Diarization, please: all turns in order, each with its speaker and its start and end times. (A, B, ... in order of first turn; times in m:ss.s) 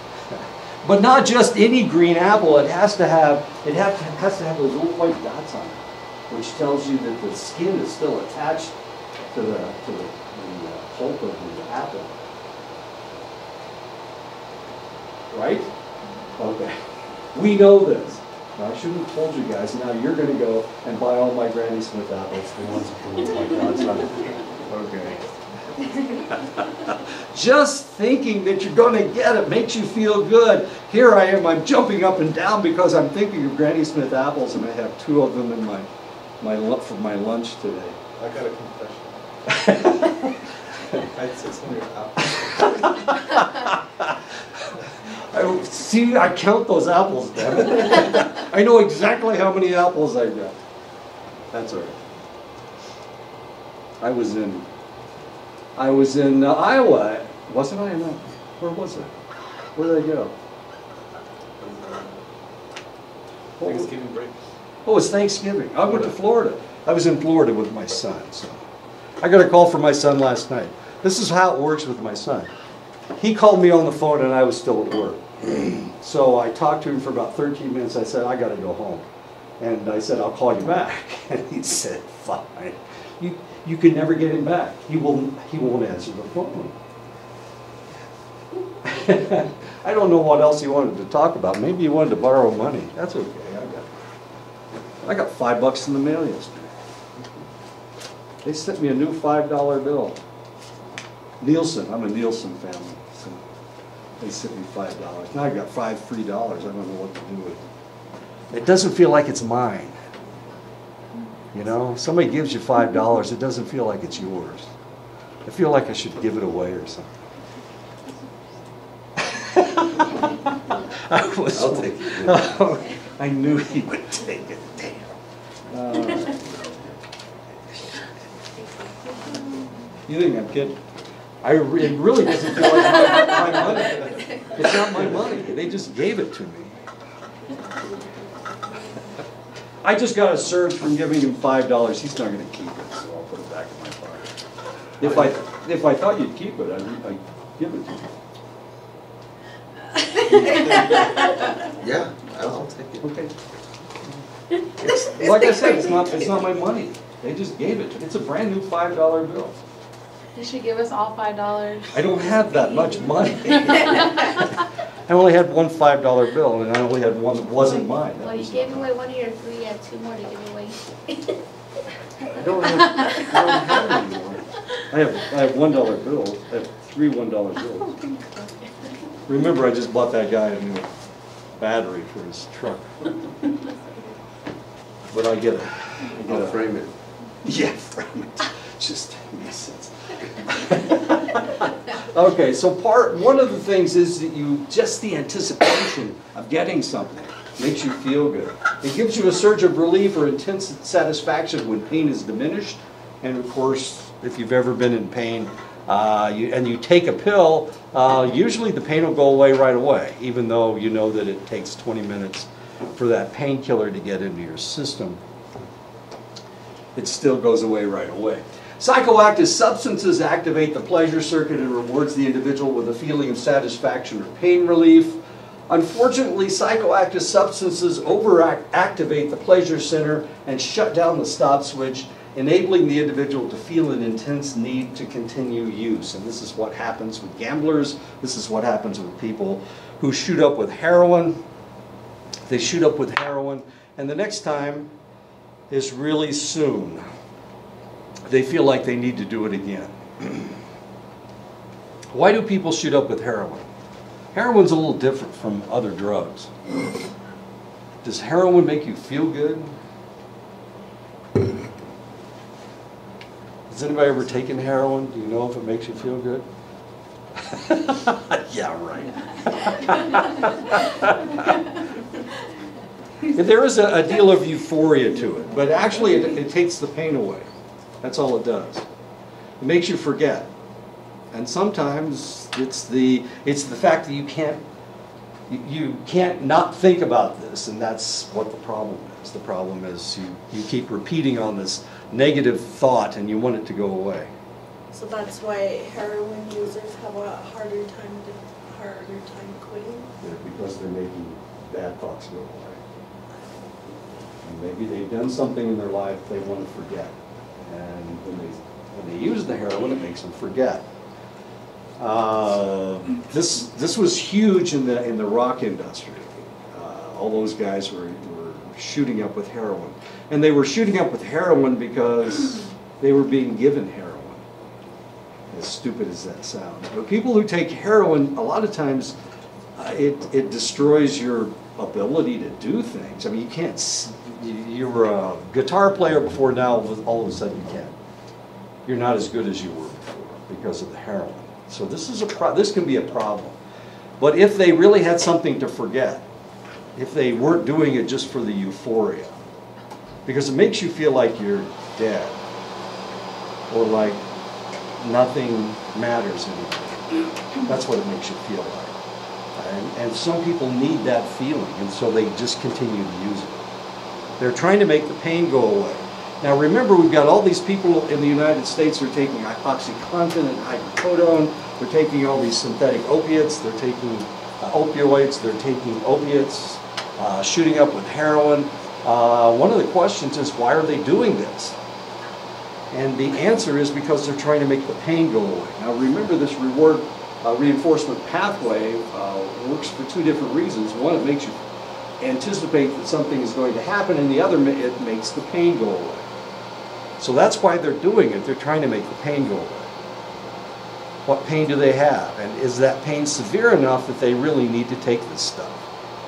0:00.3-0:08.8 A
0:09.3-0:12.2 A
0:15.3-0:15.7 A
0:16.4-0:16.8 A
0:17.3-0:25.2 A
0:26.1-0:35.9 A
0:36.4-0:38.0 A
0:38.2-0:39.2 B
0:39.5-0:40.4 A
0:41.0-0:42.7 B
0:42.2-0:44.2 A
0:45.2-0:50.6 A
0:51.5-0:52.0 A
0:54.0-0:54.7 A
0:55.8-0:59.1 A
0:59.8-1:00.3 A
1:01.6-1:02.2 B
1:03.6-1:03.9 A
1:03.6-1:04.4 B
1:04.8-1:08.6 A
1:09.2-1:12.5 A
1:13.2-1:19.0 A
1:19.6-1:26.8 A
1:28.8-1:33.9 A
1:35.0-1:36.8 A
1:38.4-1:40.2 A
1:41.4-1:43.4 A
1:44.2-1:47.6 A
1:48.5-1:50.0 A
1:51.5-1:54.7 A
1:55.4-1:57.1 A
1:59.2-2:05.1 A
2:01.5-2:02.5 B
2:05.7-2:06.6 A
2:10.1-2:10.8 A
2:11.4-2:16.8 A
2:19.8-2:24.3 A
2:25.0-2:28.1 A
2:30.3-2:30.8 A
2:30.5-2:31.1 B
2:31.7-2:33.1 B
2:33.0-2:33.3 A
2:34.8-2:39.6 A
2:41.9-2:44.5 A
2:45.1-2:48.9 A
2:48.2-2:50.8 C
2:52.3-2:58.0 A
2:59.3-3:00.9 A
3:01.6-3:03.1 A
3:05.1-3:06.6 A
3:06.1-3:06.9 B
3:07.4-3:35.2 A
3:37.0-4:01.4 A
4:02.5-4:04.9 A
4:05.7-4:07.0 A
4:08.3-4:10.5 A
4:12.1-4:13.7 A
4:14.3-4:16.5 A
4:18.0-4:19.8 A
4:23.7-4:26.5 A
4:27.4-4:31.6 A
4:33.2-4:37.5 A
4:38.0-4:38.9 A
4:39.6-4:40.5 A
4:41.3-4:44.6 A
4:45.5-4:54.3 A
4:54.9-5:00.1 D
5:00.2-5:02.8 A
5:04.4-5:10.9 A
5:12.0-5:24.4 A
5:25.5-5:29.2 A
5:29.8-5:38.0 A
5:38.9-5:43.6 A
5:44.2-5:46.2 A
5:47.0-5:49.3 A
5:50.2-5:52.4 A
5:53.7-5:54.2 A
5:55.0-5:59.0 A
5:59.6-6:03.7 A
6:04.4-6:21.8 A
6:22.9-6:31.6 A
6:32.2-6:36.3 A
6:37.2-6:39.9 A
6:41.3-6:45.9 A